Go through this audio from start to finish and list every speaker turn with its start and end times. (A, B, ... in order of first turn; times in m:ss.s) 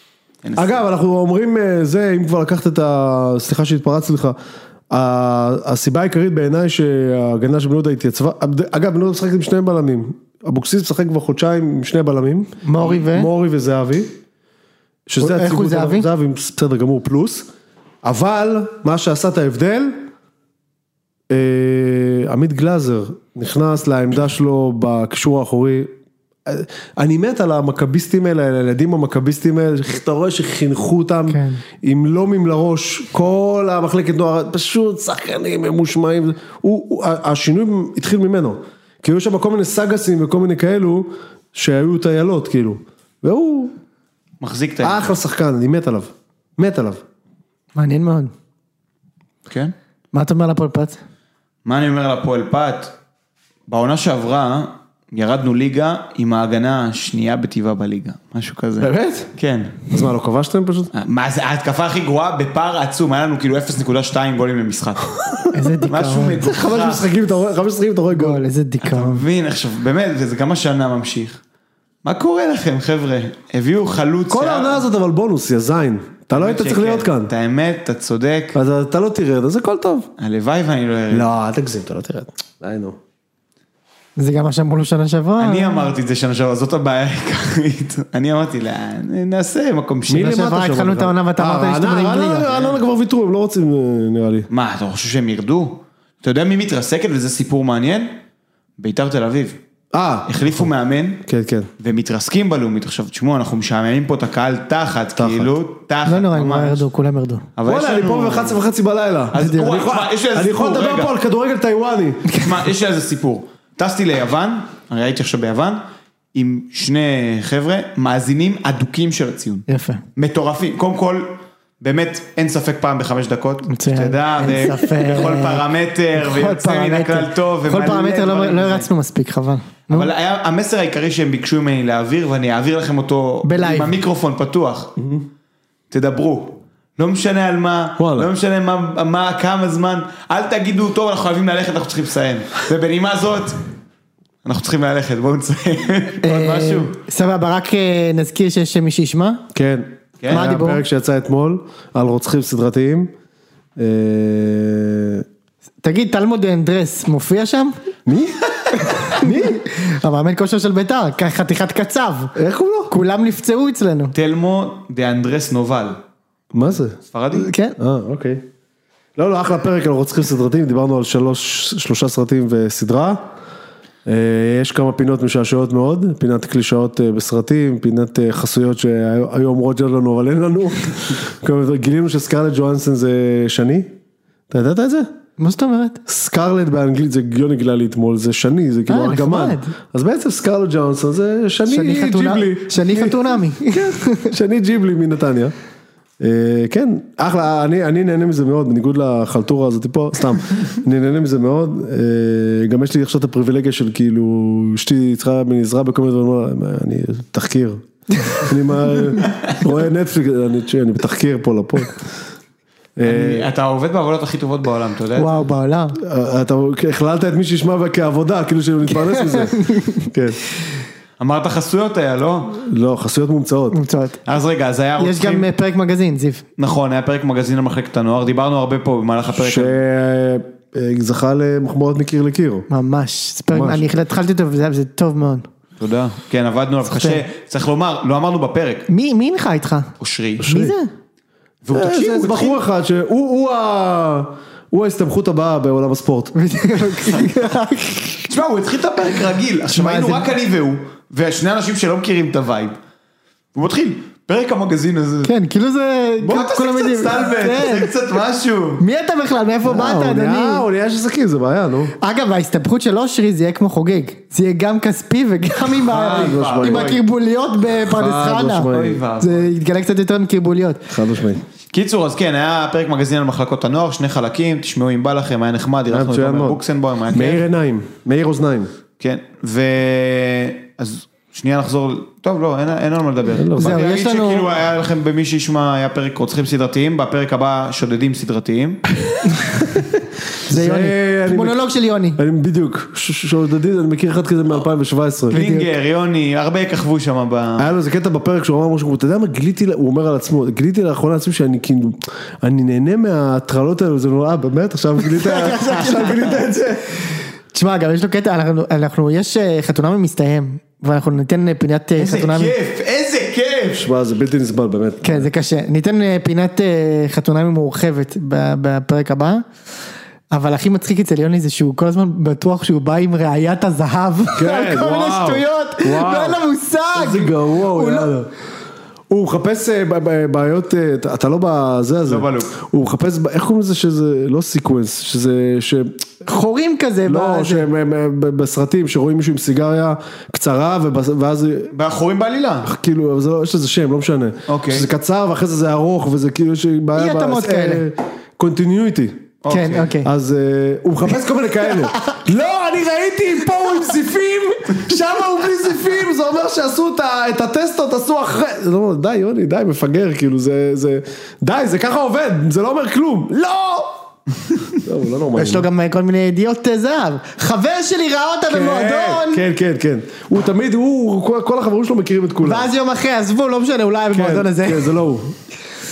0:00.4-0:00.8 A
0:00.6-0:04.4 B
0:04.9-0:14.1 B
0:12.6-0:13.3 C
0:15.1-0:17.5 B
0:15.2-0:16.0 C
0:18.0-0:20.0 B
0:21.3-0:25.9 B
0:26.4-0:43.7 B
0:31.3-0:31.6 C
0:44.4-0:45.1 A
0:44.8-0:47.0 B
0:47.7-0:48.3 C
0:49.5-0:49.7 A
0:50.1-0:51.0 C
0:51.6-0:52.9 A
0:53.7-0:59.8 A
0:58.8-0:59.3 B
0:59.9-1:00.9 B
1:00.9-1:05.1 A
1:05.5-1:06.4 C
1:05.8-1:07.0 A
1:06.4-1:08.4 B
1:08.1-1:09.2 C
1:08.8-1:11.4 A
1:12.0-1:14.8 A
1:14.3-1:17.3 B
1:16.3-1:18.6 A
1:18.5-1:20.1 B
1:20.2-1:21.3 A
1:21.1-1:23.0 B
1:24.2-1:25.9 C
1:25.4-1:30.4 A
1:30.1-1:34.5 B
1:30.2-1:32.6 C
1:32.4-1:32.8 A
1:34.5-1:38.1 A
1:38.8-1:39.6 A
1:39.9-1:40.7 B
1:40.3-1:41.2 A
1:41.3-1:41.7 B
1:41.8-1:46.8 A
1:45.2-1:45.5 B
1:46.0-1:47.5 C
1:47.6-1:48.6 A
1:47.6-1:52.3 B
1:49.3-1:51.1 A
1:49.3-1:49.8 C
1:52.4-1:55.8 A
1:56.3-1:59.6 A
1:59.7-2:00.0 C
2:00.2-2:08.9 A
2:03.7-2:10.1 C
2:09.9-2:14.9 A
2:13.4-2:14.0 C
2:15.0-2:15.3 B
2:15.9-2:23.6 A
2:18.0-2:18.3 B
2:24.4-2:26.9 A
2:26.2-2:29.4 C
2:29.5-2:33.1 B
2:30.3-2:30.8 C
2:33.8-2:35.2 B
2:35.8-2:37.7 C
2:38.0-2:38.4 B
2:38.8-2:42.3 C
2:39.0-2:39.6 B
2:42.4-2:42.9 B
2:42.9-2:44.1 C
2:44.1-2:46.0 A
2:46.5-2:47.0 B
2:47.0-2:47.5 A
2:47.3-2:47.8 C
2:47.8-2:48.4 B
2:49.2-2:53.2 B
2:54.0-3:03.9 B
3:04.5-3:05.1 B
3:05.4-3:06.0 C
3:06.1-3:15.5 B
3:08.9-3:09.7 C
3:11.7-3:14.3 C
3:16.2-3:32.1 B
3:33.0-3:33.5 B
3:33.0-3:35.3 A
3:35.2-3:36.0 C
3:36.0-3:40.4 B
3:39.0-3:40.1 C
3:41.2-3:42.6 A
3:42.6-3:43.8 B
3:43.7-3:44.2 C
3:44.3-3:45.5 A
3:45.0-3:46.4 C
3:46.6-3:49.8 A
3:49.4-3:52.7 B
3:52.7-3:55.5 C
3:53.5-3:53.8 B
3:55.8-3:58.9 A
3:56.9-3:57.2 C
3:58.9-3:59.9 C
4:00.0-4:00.4 A
4:00.4-4:00.8 B
4:00.4-4:00.9 C
4:01.6-4:02.6 A
4:01.7-4:06.3 B
4:06.3-4:08.2 C
4:07.0-4:07.4 A
4:08.2-4:12.8 A
4:09.7-4:10.3 C
4:13.6-4:15.3 A
4:15.2-4:17.9 C
4:16.2-4:18.8 A
4:18.8-4:20.6 C
4:19.6-4:21.9 B
4:22.0-4:30.9 C
4:25.8-4:27.0 A
4:25.9-4:27.0 B
4:27.8-4:29.0 B
4:28.7-4:29.5 A
4:30.9-4:31.4 B
4:31.7-4:37.4 A
4:35.9-4:36.6 B
4:37.1-4:38.7 B
4:39.0-4:48.8 A
4:43.3-4:43.8 B
4:43.6-4:44.5 C
4:50.5-4:52.2 C
4:50.5-4:51.6 B
4:52.2-4:55.3 B
4:55.3-4:55.7 C
4:55.3-4:57.7 A
4:57.6-5:07.0 B
5:05.0-5:06.3 C
5:07.5-5:12.6 C
5:12.0-5:13.9 A
5:13.8-5:15.3 B
5:15.0-5:19.4 C
5:20.3-5:28.1 C
5:24.3-5:26.4 B
5:26.9-5:28.3 B
5:29.1-5:36.0 B
5:32.0-5:32.6 A
5:36.2-5:37.7 C
5:37.0-5:41.7 B
5:41.7-5:42.7 A
5:42.6-5:49.3 B
5:44.5-5:44.9 A
5:47.0-5:47.8 C
5:49.4-5:49.9 A
5:49.5-5:50.1 C
5:50.0-6:04.0 B
6:04.8-6:05.7 B
6:05.4-6:09.4 C
6:08.5-6:12.7 B
6:12.4-6:15.0 C
6:14.1-6:15.3 B